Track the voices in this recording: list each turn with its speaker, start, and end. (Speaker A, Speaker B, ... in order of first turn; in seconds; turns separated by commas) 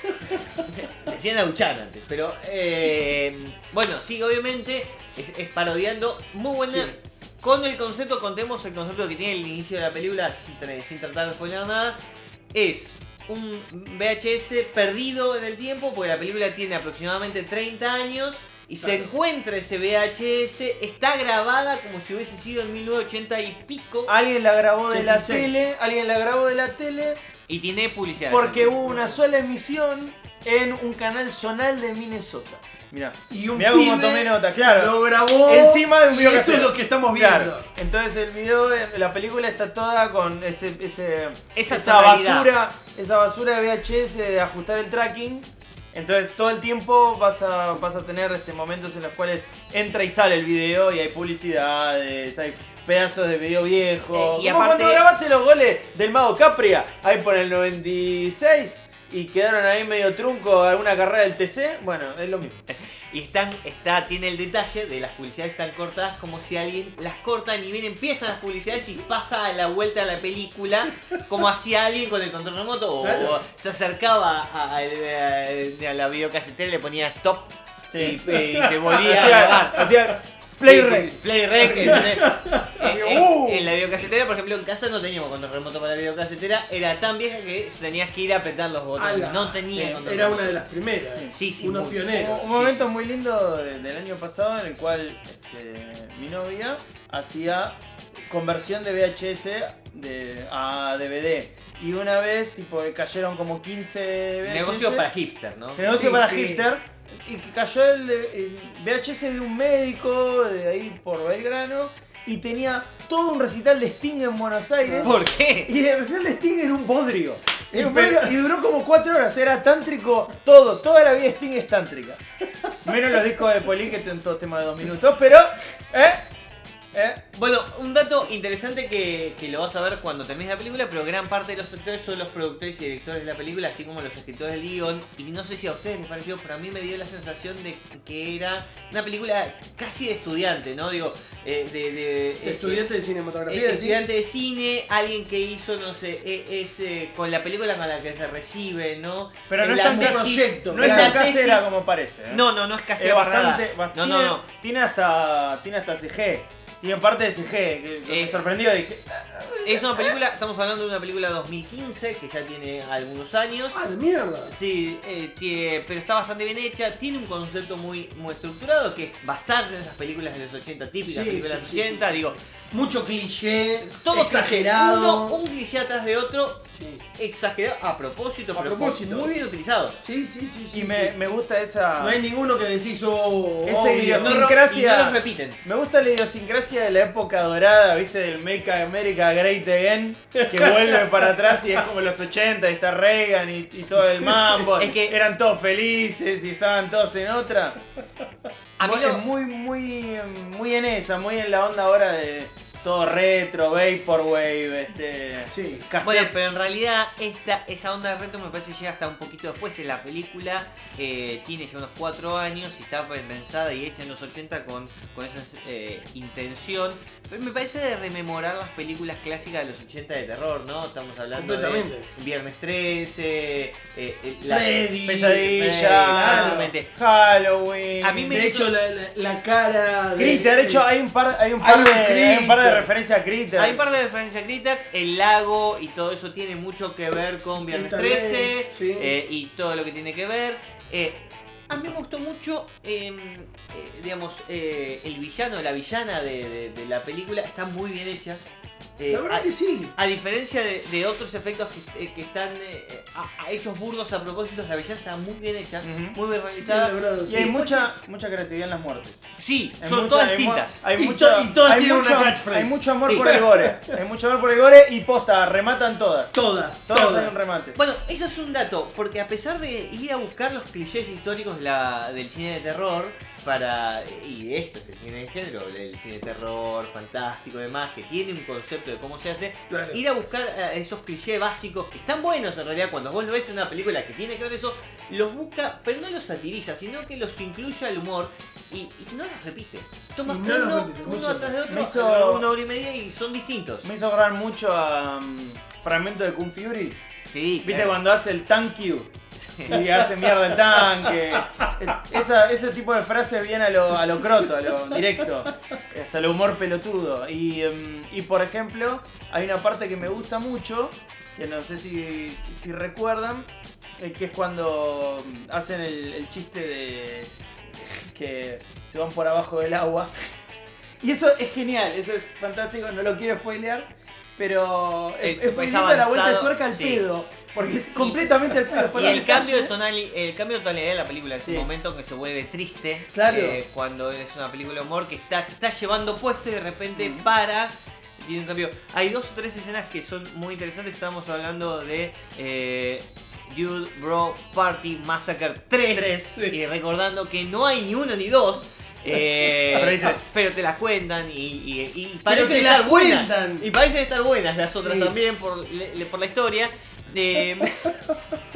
Speaker A: 0.1-0.5, Speaker B: 0.7-12.0, Speaker A: 6.6-7.0, Speaker B: 12.5-24.1, Speaker C: 18.8-19.1, Speaker C: 24.1-27.2, Speaker A: 24.9-25.7, Speaker B: 27.5-28.8, Speaker C: 28.3-62.6, Speaker A: 28.9-29.2, Speaker A: 33.3-37.7, Speaker B: 41.5-42.5, Speaker B: 54.1-55.0, Speaker B: 62.7-79.8, Speaker A: 73.0-73.4, Speaker C: 77.9-78.2, Speaker A: 78.4-79.9, Speaker C: 78.9-82.1, Speaker B: 80.6-90.6, Speaker A: 81.6-82.8, Speaker C: 82.8-83.8, Speaker A: 89.0-92.5, Speaker B: 91.3-92.9, Speaker C: 92.1-105.1, Speaker B: 104.4-105.9, Speaker C: 105.8-122.2, Speaker A: 105.8-106.7, Speaker A: 114.8-115.2, Speaker B: 115.0-115.7, Speaker A: 117.7-118.3, Speaker C: 122.8-126.2, Speaker C: 126.9-127.2, Speaker B: 127.3-142.9, Speaker A: 142.4-144.1, Speaker B: 143.5-151.7, Speaker C: 149.5-159.2, Speaker A: 149.8-151.2, Speaker B: 152.3-154.4, Speaker B: 158.1-158.4, Speaker A: 159.3-160.1, Speaker B: 159.7-163.8, Speaker A: 163.7-164.5, Speaker B: 164.5-172.4, Speaker A: 171.0-175.4, Speaker B: 173.8-176.6, Speaker A: 176.8-177.0, Speaker B: 177.2-180.0, Speaker A: 178.6-179.3, Speaker A: 180.0-181.1, Speaker C: 180.7-182.2, Speaker A: 182.0-184.5, Speaker C: 183.7-197.8, Speaker B: 184.2-185.6, Speaker A: 190.4-191.8, Speaker A: 194.2-194.6, Speaker B: 194.8-195.2, Speaker B: 198.8-199.2, Speaker C: 198.8-206.3, Speaker A: 205.5-205.9, Speaker B: 206.0-226.9, Speaker A: 221.4-222.1, Speaker A: 224.5-225.6, Speaker C: 225.1-228.4, Speaker A: 226.1-226.7, Speaker B: 228.0-228.7, Speaker A: 228.3-230.9, Speaker C: 230.2-233.8, Speaker A: 231.6-232.9, Speaker B: 233.6-248.4, Speaker A: 237.7-239.1, Speaker B: 249.0-257.6, Speaker A: 249.1-249.9, Speaker C: 255.8-256.2, Speaker A: 256.6-257.7, Speaker C: 257.3-259.2, Speaker B: 259.4-260.8, Speaker C: 259.8-266.4, Speaker A: 260.9-264.0, Speaker A: 266.3-267.4, Speaker C: 266.9-267.8, Speaker B: 267.7-293.9, Speaker A: 279.7-280.0, Speaker A: 290.3-291.6, Speaker C: 291.7-292.5, Speaker C: 293.8-297.0, Speaker B: 297.3-298.0, Speaker C: 297.6-299.1, Speaker B: 299.4-299.7, Speaker C: 299.6-320.3, Speaker C: 321.0-329.7, Speaker B: 325.2-327.1, Speaker B: 327.9-328.3, Speaker A: 328.7-329.0, Speaker B: 328.9-357.9, Speaker C: 333.1-333.6, Speaker C: 337.0-337.3, Speaker C: 345.9-346.4, Speaker C: 349.7-350.2, Speaker A: 352.3-353.7, Speaker A: 354.8-355.1